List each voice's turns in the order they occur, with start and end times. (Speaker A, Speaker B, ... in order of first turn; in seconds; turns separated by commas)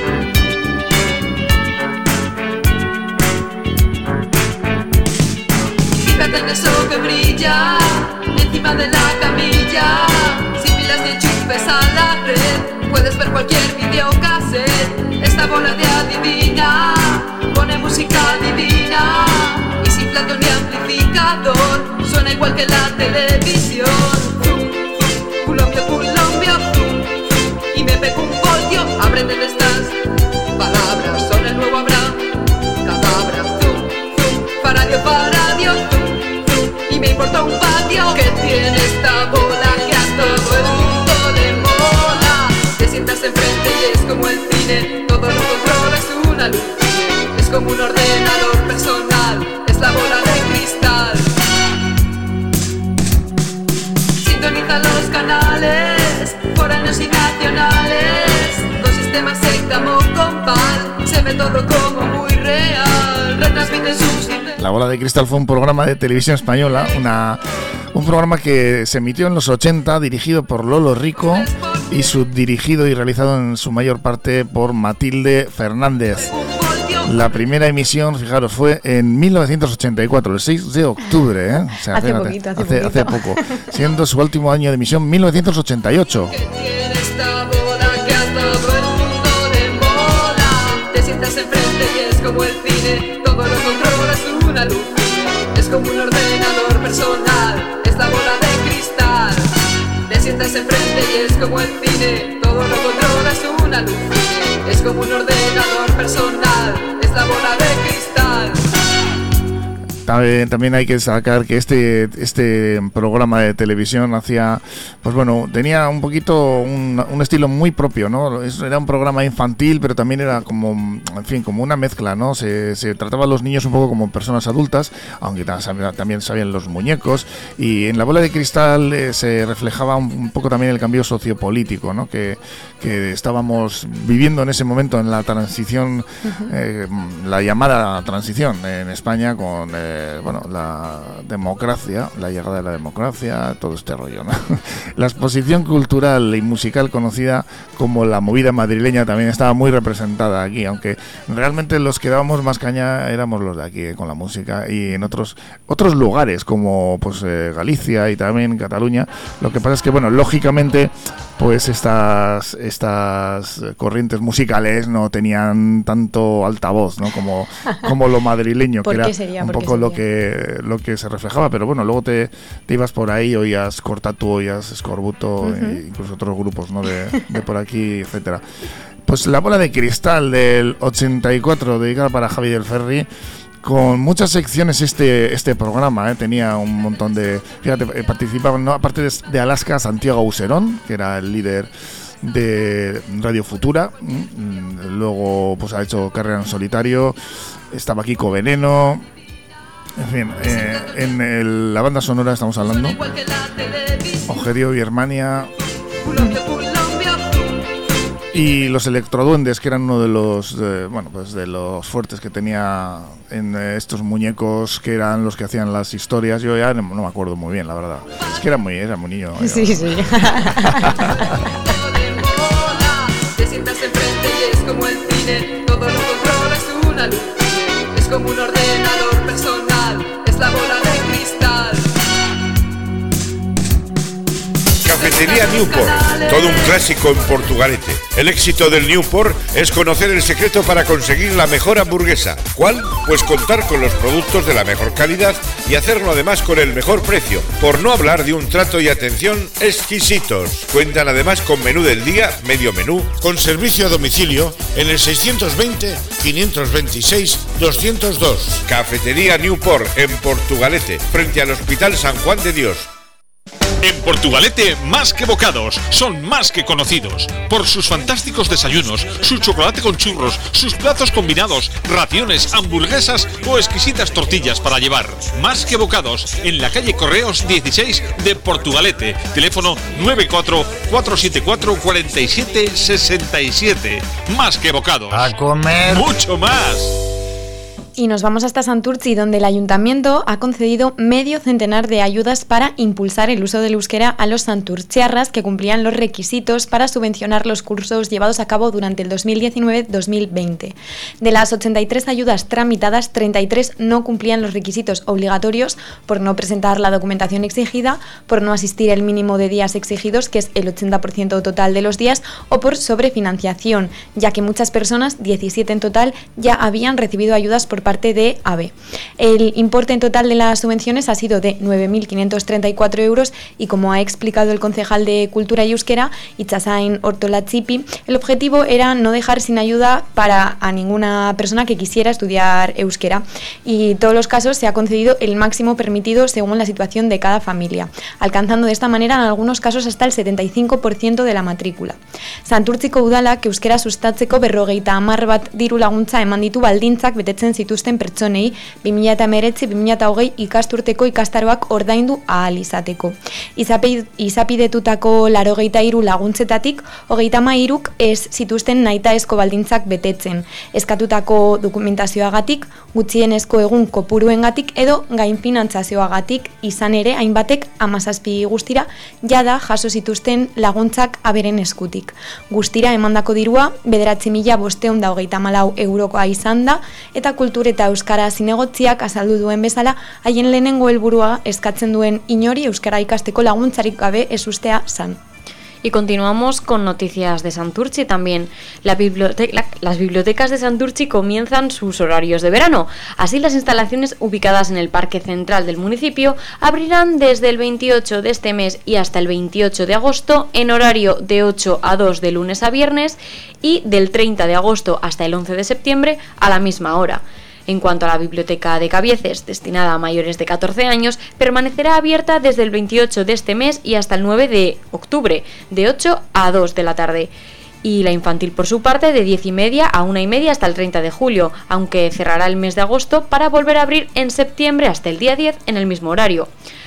Speaker A: 6.0-30.0, Speaker A: 30.6-32.3, Speaker A: 32.8-51.3, Speaker A: 54.2-64.6, Speaker B: 64.6-67.4, Speaker B: 67.9-76.3, Speaker A: 71.2-72.2, Speaker A: 76.2-77.5, Speaker B: 77.0-86.3, Speaker C: 81.9-83.6, Speaker A: 86.3-99.5, Speaker A: 100.1-108.7, Speaker B: 110.0-178.4, Speaker C: 136.2-136.5, Speaker C: 168.8-170.0, Speaker C: 175.4-175.8, Speaker B: 179.1-183.1, Speaker B: 183.6-197.2, Speaker B: 197.7-199.1, Speaker B: 200.0-203.0, Speaker A: 200.5-200.9, Speaker A: 202.6-204.4, Speaker B: 204.3-205.5, Speaker A: 206.0-207.8, Speaker B: 208.3-221.4, Speaker C: 219.4-221.1, Speaker A: 221.3-231.9, Speaker D: 234.8-262.9, Speaker A: 234.9-237.1, Speaker E: 263.8-287.0, Speaker C: 288.0-385.2, Speaker F: 385.8-417.3, Speaker F: 417.8-426.5